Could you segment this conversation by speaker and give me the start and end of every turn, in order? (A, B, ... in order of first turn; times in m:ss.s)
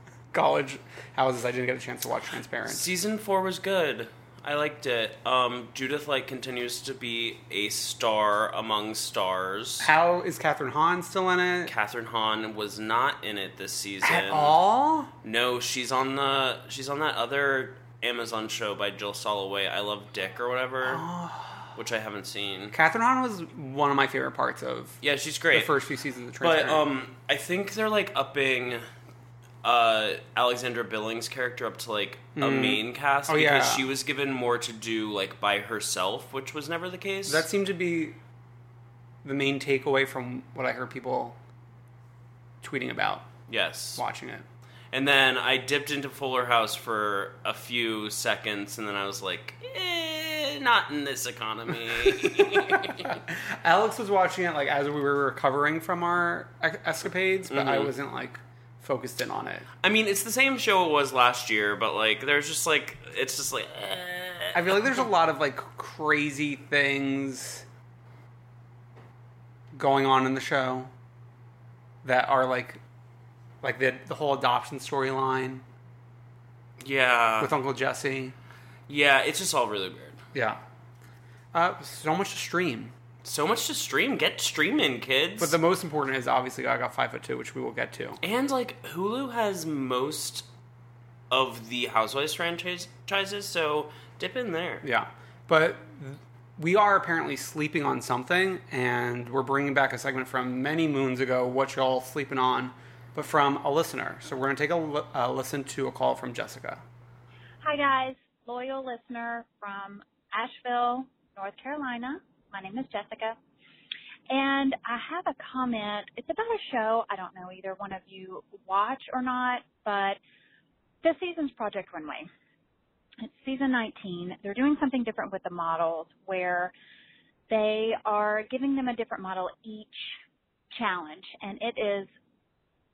0:00.3-0:02.8 A
0:02.7-0:09.9 B
0:09.8-0:11.7 A
0:11.7-0:14.6 B
0:14.0-0:15.1 A
0:15.2-0:21.0 B
0:20.8-0:21.7 A
0:21.8-0:22.8 B
0:22.7-0:25.0 A
0:25.0-0:25.8 B
0:25.5-0:26.8 A
0:26.4-0:28.8 B
0:29.6-0:37.5 B
0:32.4-0:33.8 A
0:37.3-0:38.2 A
0:39.2-0:41.4 A
0:42.6-0:43.3 A
0:43.5-0:44.0 B
0:44.0-0:44.4 A
0:44.9-0:53.2 B
0:52.2-0:59.7 A
0:57.5-0:57.9 B
0:59.8-1:05.0 B
1:04.5-1:07.6 A
1:09.7-1:10.9 A
1:12.0-1:12.8 A
1:13.6-1:15.6 A
1:16.8-1:17.6 B
1:17.4-1:18.4 A
1:18.9-1:20.2 B
1:20.3-1:20.6 A
1:21.5-1:22.9 A
1:23.2-1:25.6 B
1:25.4-1:28.2 A
1:28.2-1:30.5 B
1:31.3-1:34.8 B
1:34.8-1:46.8 A
1:47.6-1:53.4 C
1:54.3-2:00.2 C
2:01.0-2:02.3 C
2:03.2-2:06.7 C
2:07.5-2:10.0 C
2:10.7-2:12.1 C